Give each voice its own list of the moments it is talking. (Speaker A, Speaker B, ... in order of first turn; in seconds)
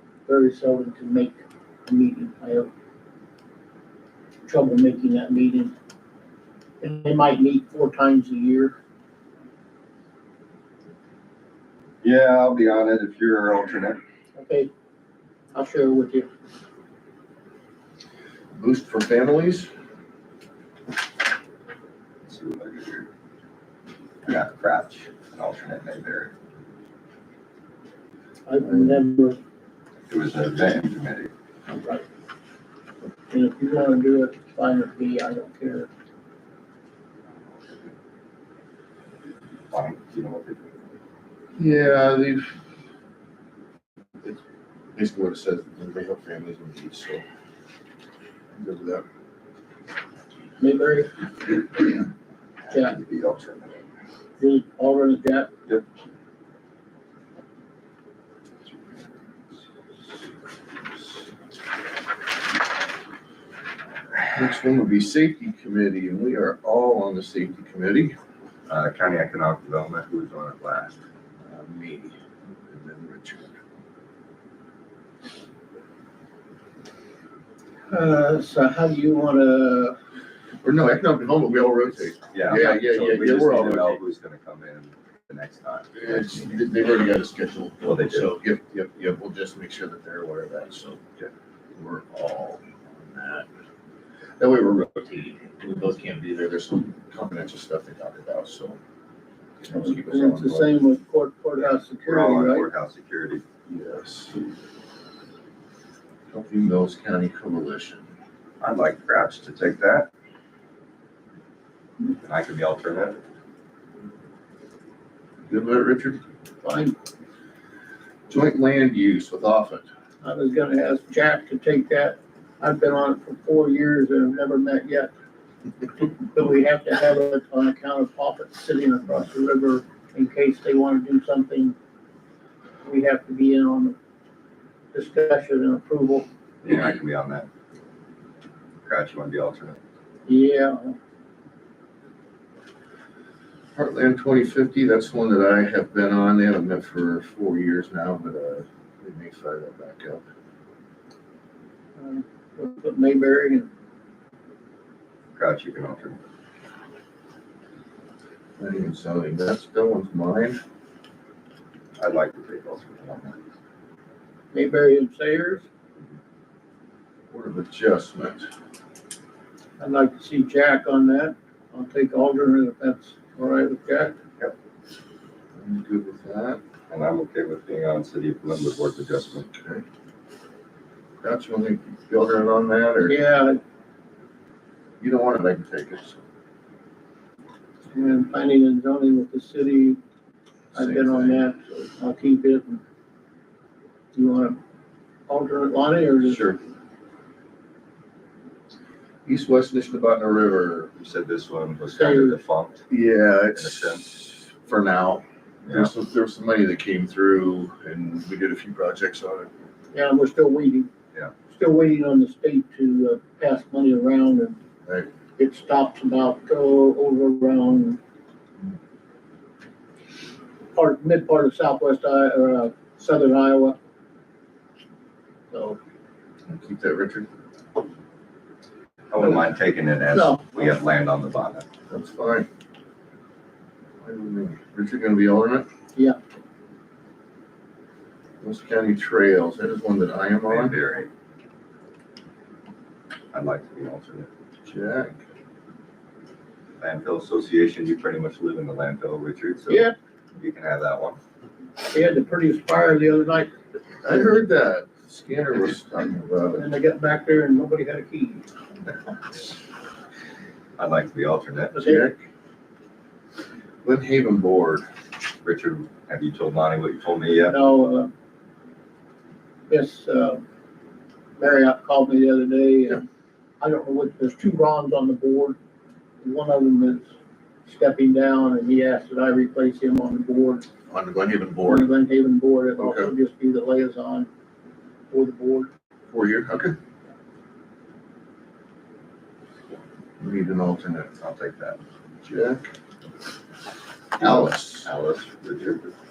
Speaker A: 0.3-2.7, 4.5-5.7, 6.8-8.8, 14.4-14.7, 15.6-16.3, 28.5-29.4, 31.7-32.0, 33.3-35.9, 50.6-51.8, 54.4-55.5, 77.9-80.0, 99.7-102.7, 116.6-117.0, 120.2-125.1, 126.3-131.8, 132.8-134.0, 134.9-136.3, 140.3-141.0, 152.0-153.7, 164.5-165.7, 169.8-174.2, 183.1-183.6, 187.9-190.0, 190.8-192.8, 194.2-194.6, 195.3-196.4, 201.9-202.4, 209.9-210.9, 211.5-214.6, 215.4-218.0, 220.7-223.8, 225.5-225.8, 230.1-230.7, 249.7-249.9, 251.9-253.5, 256.6-258.5, 261.7-262.1, 267.5-268.1, 269.7-270.4, 271.4-273.0, 273.6-275.6, 276.2-277.1, 277.7-280.7, 281.7-284.3, 285.1-285.7
Speaker B: 12.0-14.0, 22.3-23.1, 24.2-26.3, 30.1-31.3, 37.5-37.9, 39.7-40.8, 52.7-53.8, 68.7-71.0, 82.3-86.7, 87.8-88.4, 102.0-103.4, 108.6-110.1, 112.1-113.2, 136.6-137.5, 138.9-139.8, 155.3-156.2, 162.0-163.4, 176.9-179.5, 201.0-202.9, 203.6-204.1, 205.7-205.9, 229.1-231.7, 240.5-241.1, 243.3-244.3, 246.8-251.2, 260.8-261.9, 265.4-267.6, 291.2-291.8, 294.2-295.9
Speaker C: 18.6-19.7, 28.6-29.0, 41.5-42.5, 45.0-47.2, 48.5-49.0, 64.4-68.2, 71.5-73.6, 80.6-84.0, 86.0-91.0, 91.8-93.5, 94.4-98.8, 99.6-100.7, 103.7-104.4, 106.3-108.0, 115.5-116.2, 118.3-119.9, 143.8-150.2, 158.6-160.6, 167.3-168.5, 175.6-176.6, 179.5-179.8, 181.2-183.2, 185.0-186.2, 190.7-191.4, 199.3-200.9, 202.9-209.5, 226.5-227.3, 231.9-232.5, 234.0-235.7, 238.4-240.8, 244.7-245.2, 254.0-256.7, 261.8-262.2, 263.8-264.9, 280.9-281.9, 282.8-283.1, 286.1-286.8, 290.2-291.1, 292.2-292.7, 294.2-294.9